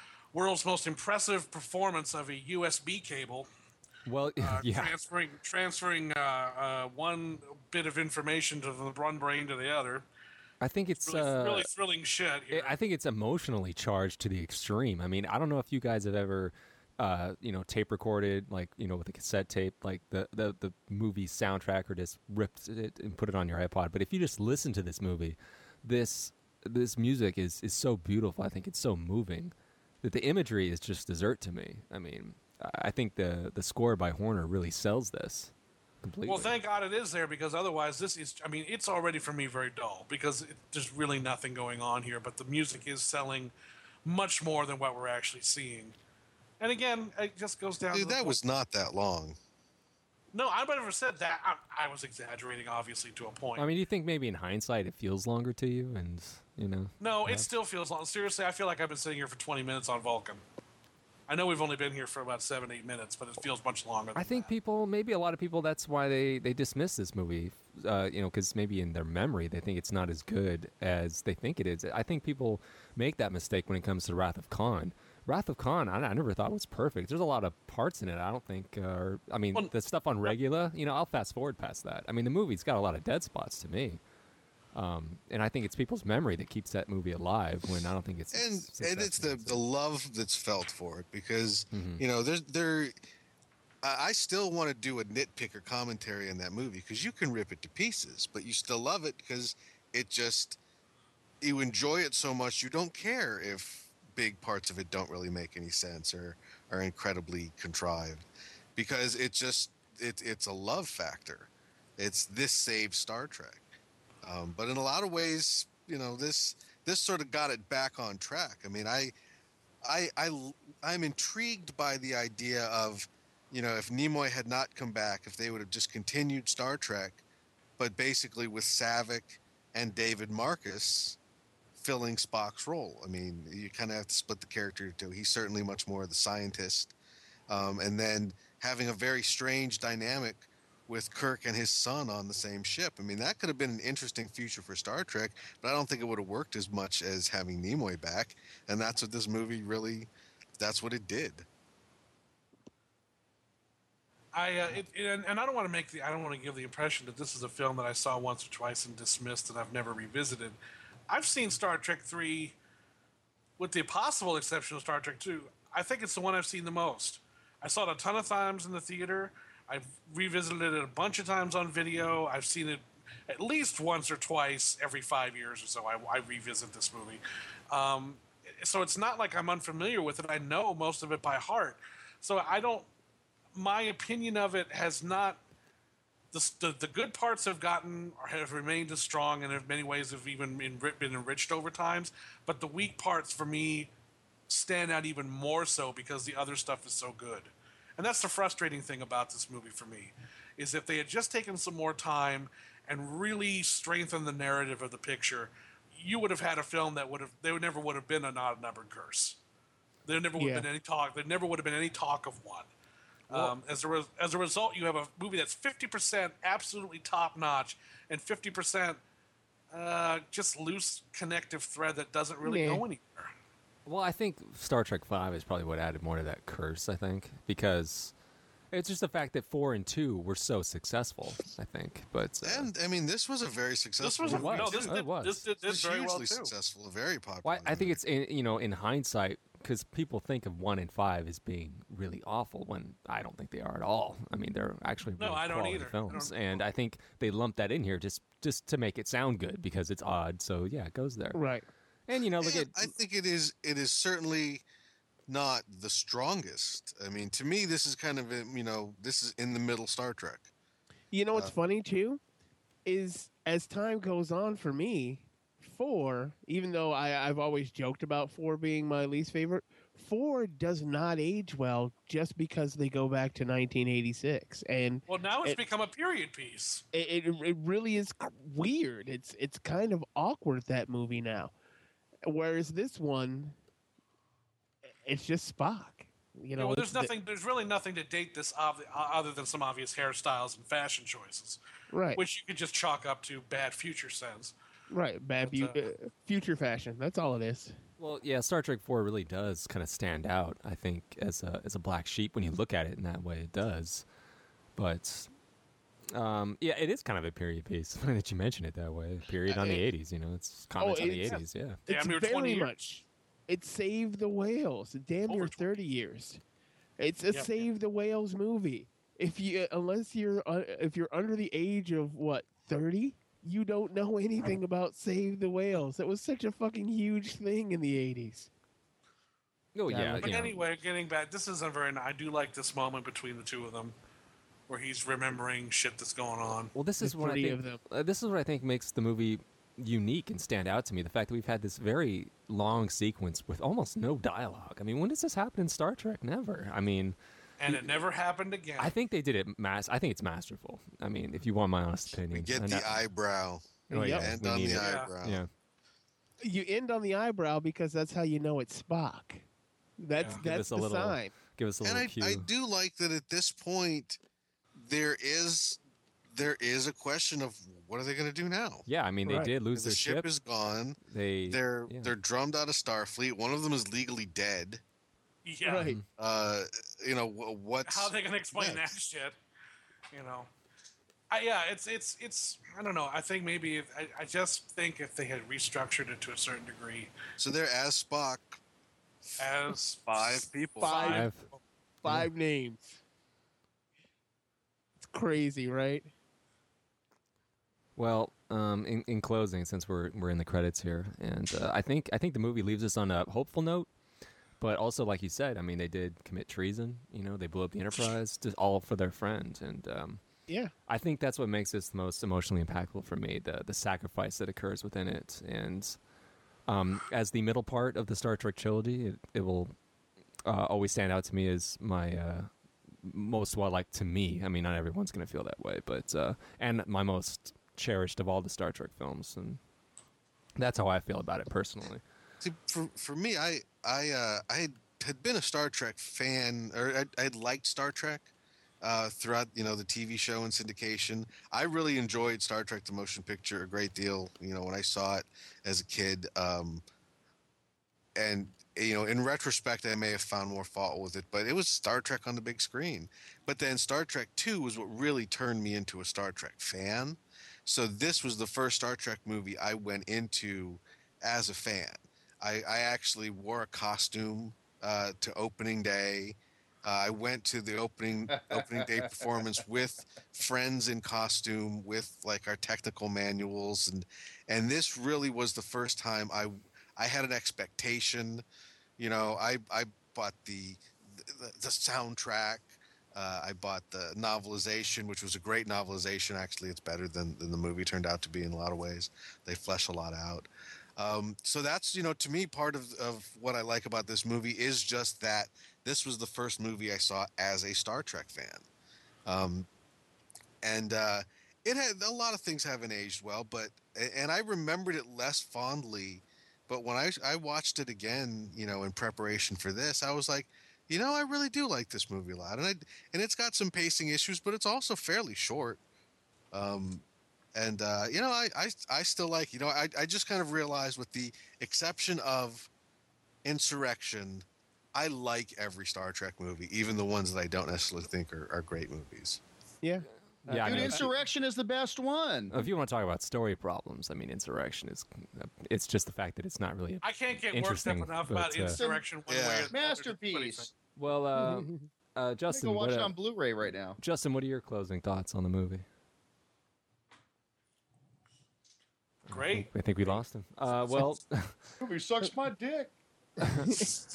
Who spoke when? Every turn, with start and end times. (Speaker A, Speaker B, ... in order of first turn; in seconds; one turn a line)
Speaker A: 0.3-3.5
Speaker B: 4.1-5.0
Speaker A: 4.4-10.1
Speaker B: 10.6-11.7
Speaker A: 11.0-12.8
Speaker B: 12.5-35.5
Speaker B: 36.0-36.5
Speaker A: 36.3-43.5
Speaker A: 44.0-46.0
Speaker A: 46.6-48.4
Speaker C: 47.9-49.4
Speaker A: 50.3-53.7
Speaker B: 53.6-57.5
Speaker A: 57.0-60.4
Speaker A: 61.3-64.5
Speaker B: 64.2-84.0
Speaker B: 84.7-89.6
Speaker C: 88.3-92.9
Speaker B: 91.7-92.0
Speaker C: 93.8-100.6
Speaker C: 101.4-113.7
Speaker C: 114.2-119.1
Speaker C: 119.8-127.2
Speaker C: 127.8-131.2
Speaker C: 131.8-136.9
Speaker C: 137.5-151.5
Speaker A: 154.3-160.6
Speaker A: 161.1-162.6
Speaker A: 163.6-182.9
Speaker A: 183.6-185.4
Speaker A: 186.3-193.9
Speaker A: 194.5-209.4
Speaker A: 210.1-212.7
Speaker D: 210.4-210.7
Speaker A: 213.3-219.0
Speaker D: 213.3-213.6
Speaker A: 219.7-223.3
Speaker D: 222.4-222.8
Speaker B: 223.9-228.1
Speaker B: 228.7-232.7
Speaker C: 232.4-235.0
Speaker A: 234.0-236.5
Speaker B: 234.3-235.5
Speaker C: 235.6-238.0
Speaker B: 237.4-251.4
Speaker A: 245.2-246.6
Speaker D: 251.3-251.7
Speaker B: 252.1-252.9
Speaker C: 252.4-254.6
Speaker C: 255.3-260.5
Speaker D: 261.1-262.2
Speaker D: 262.9-275.6
Speaker A: 275.1-276.8
Speaker D: 276.9-281.5
Speaker D: 282.2-283.6
Speaker D: 285.0-287.1
Speaker A: 286.6-291.6
Speaker D: 291.9-292.2
Speaker A: 292.1-294.6
Speaker D: 294.9-297.8
Speaker A: 295.4-295.8
Speaker B: 298.0-304.1
Speaker B: 304.8-305.3
Speaker B: 306.1-311.8
Speaker D: 309.5-309.8
Speaker D: 310.8-316.4
Speaker A: 311.9-312.7
Speaker A: 315.3-315.7
Speaker D: 317.0-328.5
Speaker A: 317.3-317.6
Speaker B: 329.8-330.6
Speaker E: 329.9-330.3
Speaker A: 330.2-333.9
Speaker A: 334.7-336.7
Speaker B: 336.8-347.2
Speaker D: 337.0-337.8
Speaker A: 347.6-348.9
Speaker B: 348.8-353.0
Speaker C: 352.3-355.4
Speaker D: 353.9-354.3
Speaker B: 353.9-355.5
Speaker A: 354.8-355.1
Speaker D: 356.4-359.4
Speaker D: 360.0-361.4
Speaker B: 360.3-362.5
Speaker C: 361.8-364.2
Speaker C: 364.8-365.8
Speaker C: 366.3-368.9
Speaker B: 368.9-370.3
Speaker D: 369.2-369.5
Speaker C: 369.7-374.8
Speaker B: 371.0-372.1
Speaker A: 375.4-375.9
Speaker D: 375.6-376.0
Speaker B: 375.8-376.0
Speaker C: 376.2-378.9
Speaker A: 377.9-379.4
Speaker A: 380.1-380.5
Speaker A: 381.3-387.1
Speaker C: 387.4-388.6
Speaker C: 389.3-391.1
Speaker A: 389.4-391.6
Speaker D: 390.8-391.3
Speaker B: 391.0-391.4
Speaker D: 392.0-393.0
Speaker D: 395.0-396.1
Speaker B: 398.0-403.9
Speaker B: 404.6-410.2
Speaker B: 410.9-416.0
Speaker B: 416.7-419.7
Speaker B: 420.5-422.5
Speaker B: 423.0-429.6
Speaker B: 430.6-432.0
Speaker C: 432.4-438.3
Speaker C: 438.8-446.8
Speaker C: 448.2-478.4
Speaker E: 468.3-469.4
Speaker C: 479.0-498.6
Speaker C: 499.3-499.7
Speaker C: 500.6-515.8
Speaker C: 516.5-517.0
Speaker C: 517.5-522.7
Speaker C: 523.4-529.4
Speaker D: 529.8-531.1
Speaker B: 530.5-531.1
Speaker E: 530.6-532.5
Speaker B: 532.5-538.8
Speaker A: 537.0-540.7
Speaker E: 538.7-539.0
Speaker C: 539.3-539.7
Speaker E: 539.7-540.7
Speaker B: 541.0-543.2
Speaker D: 541.4-541.7
Speaker E: 542.5-544.0
Speaker B: 544.0-545.8
Speaker B: 549.3-551.7
Speaker A: 549.3-549.8
Speaker E: 551.8-552.9
Speaker D: 553.4-553.9
Speaker B: 553.4-553.9